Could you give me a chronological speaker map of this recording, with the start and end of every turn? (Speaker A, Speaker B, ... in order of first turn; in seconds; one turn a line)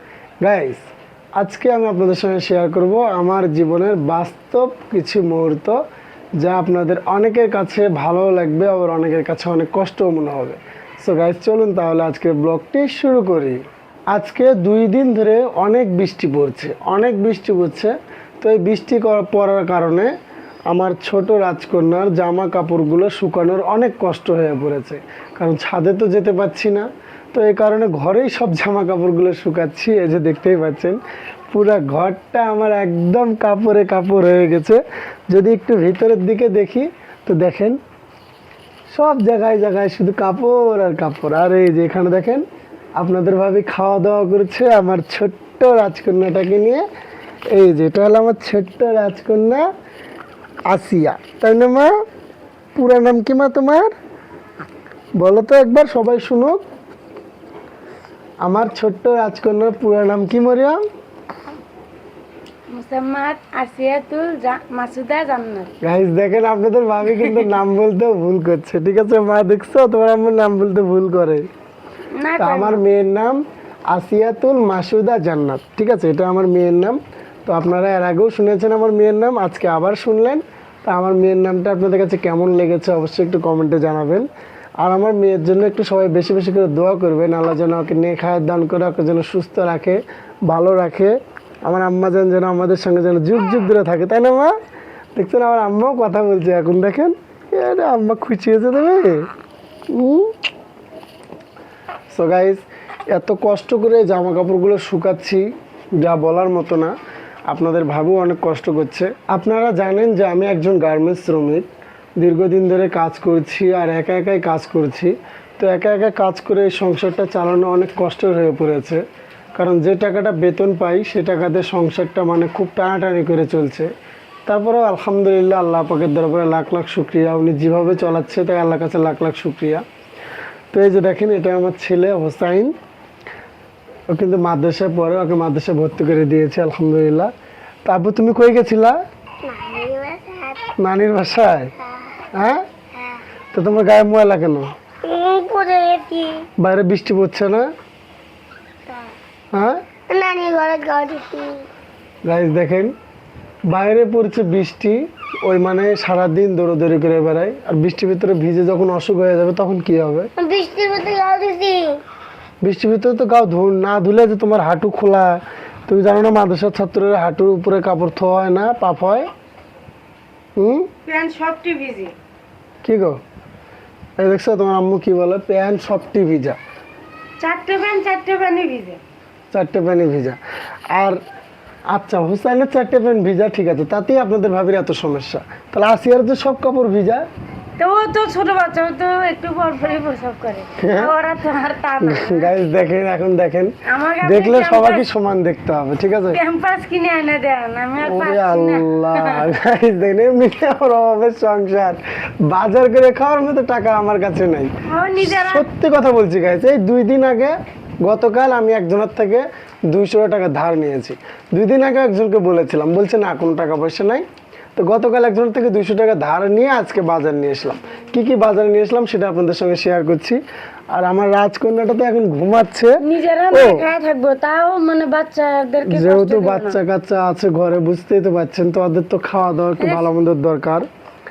Speaker A: 0.4-5.8
Speaker A: 6.4-20.1
Speaker A: 20.7-31.0
Speaker A: 31.5-37.8
Speaker A: 38.9-42.4
Speaker A: 43.0-46.8
Speaker A: 47.5-49.6
Speaker A: 50.7-51.9
Speaker A: 52.7-53.9
Speaker A: 55.1-56.6
Speaker A: 58.4-60.8
Speaker B: 62.7-65.7
Speaker A: 65.8-71.5
Speaker B: 72.1-72.8
Speaker A: 72.4-84.3
Speaker A: 84.8-94.5
Speaker A: 95.2-99.3
Speaker A: 99.9-100.3
Speaker A: 102.1-106.9
Speaker A: 107.5-111.7
Speaker A: 112.2-119.0
Speaker A: 119.5-123.9
Speaker A: 124.5-129.8
Speaker A: 130.7-132.7
Speaker A: 134.1-137.3
Speaker A: 137.8-139.0
Speaker C: 139.4-140.7
Speaker A: 140.8-141.7
Speaker A: 142.3-142.6
Speaker A: 143.5-144.7
Speaker C: 145.0-146.5
Speaker A: 146.6-147.7
Speaker A: 149.5-149.8
Speaker C: 150.1-151.7
Speaker A: 152.2-152.9
Speaker A: 153.7-160.3
Speaker C: 160.4-162.0
Speaker A: 162.6-169.3
Speaker A: 170.6-170.9
Speaker B: 171.0-172.1
Speaker A: 172.8-173.2
Speaker A: 174.2-176.6
Speaker B: 177.4-179.0
Speaker A: 179.5-181.2
Speaker A: 181.9-187.2
Speaker B: 187.8-192.5
Speaker A: 190.8-191.1
Speaker A: 192.0-196.4
Speaker B: 193.8-195.1
Speaker B: 196.3-199.5
Speaker A: 198.0-214.2
Speaker B: 204.8-205.7
Speaker A: 214.8-220.4
Speaker A: 220.9-223.8
Speaker B: 223.0-226.8
Speaker A: 225.8-230.9
Speaker B: 229.8-230.1